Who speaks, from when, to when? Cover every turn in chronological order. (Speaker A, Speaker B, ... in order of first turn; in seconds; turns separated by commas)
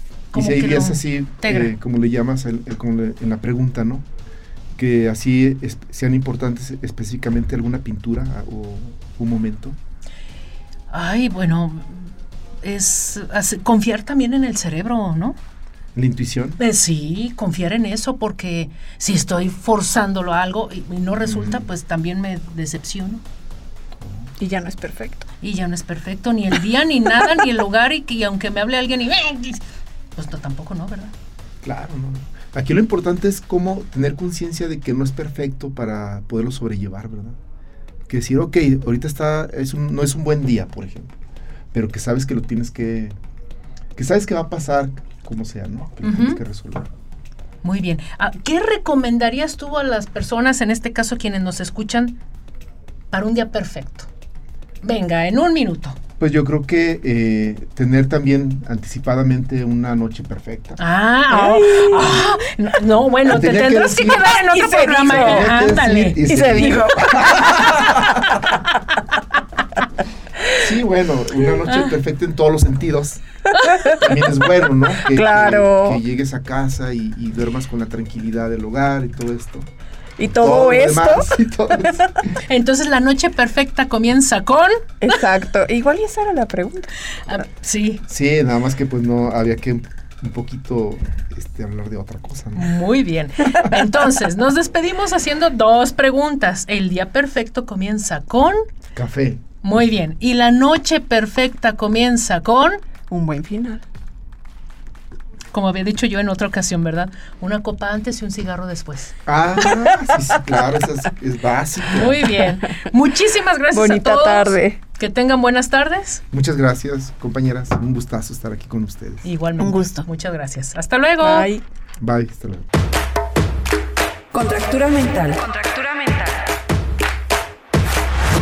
Speaker A: 0.3-1.7, Speaker B: 0.3-4.0, Speaker B: 4.8-9.8, Speaker A: 10.9-12.1, Speaker A: 12.6-15.4, Speaker B: 15.9-16.6, Speaker A: 16.6-23.2, Speaker B: 21.2-21.7, Speaker B: 24.0-24.3, Speaker C: 24.4-25.3, Speaker A: 25.4-29.6, Speaker A: 30.1-31.1, Speaker B: 31.6-37.4, Speaker B: 38.1-41.1, Speaker B: 41.7-43.1, Speaker B: 44.0-46.9, Speaker A: 46.0-46.4, Speaker A: 47.6-52.2, Speaker A: 53.1-54.1, Speaker A: 54.8-56.0, Speaker B: 56.2-60.8, Speaker A: 60.8-66.2, Speaker C: 61.3-62.2, Speaker B: 63.2-68.5, Speaker C: 64.5-65.6, Speaker C: 66.2-68.5, Speaker B: 70.5-73.2, Speaker A: 71.7-71.9, Speaker A: 73.6-73.9, Speaker C: 73.6-74.2, Speaker B: 73.8-79.7, Speaker C: 75.0-76.0, Speaker C: 80.2-82.2, Speaker B: 80.2-82.4, Speaker A: 82.4-84.9, Speaker C: 85.0-86.9, Speaker A: 87.2-88.0, Speaker B: 88.1-92.8, Speaker A: 92.5-98.6, Speaker B: 98.9-99.4, Speaker A: 99.6-102.8, Speaker C: 103.1-103.8, Speaker A: 105.5-109.2, Speaker B: 109.2-112.4, Speaker A: 111.8-116.2, Speaker C: 113.7-114.8, Speaker B: 116.3-119.2, Speaker A: 119.2-121.5, Speaker C: 119.6-120.0, Speaker C: 121.2-121.6, Speaker B: 122.0-122.7, Speaker C: 124.3-126.3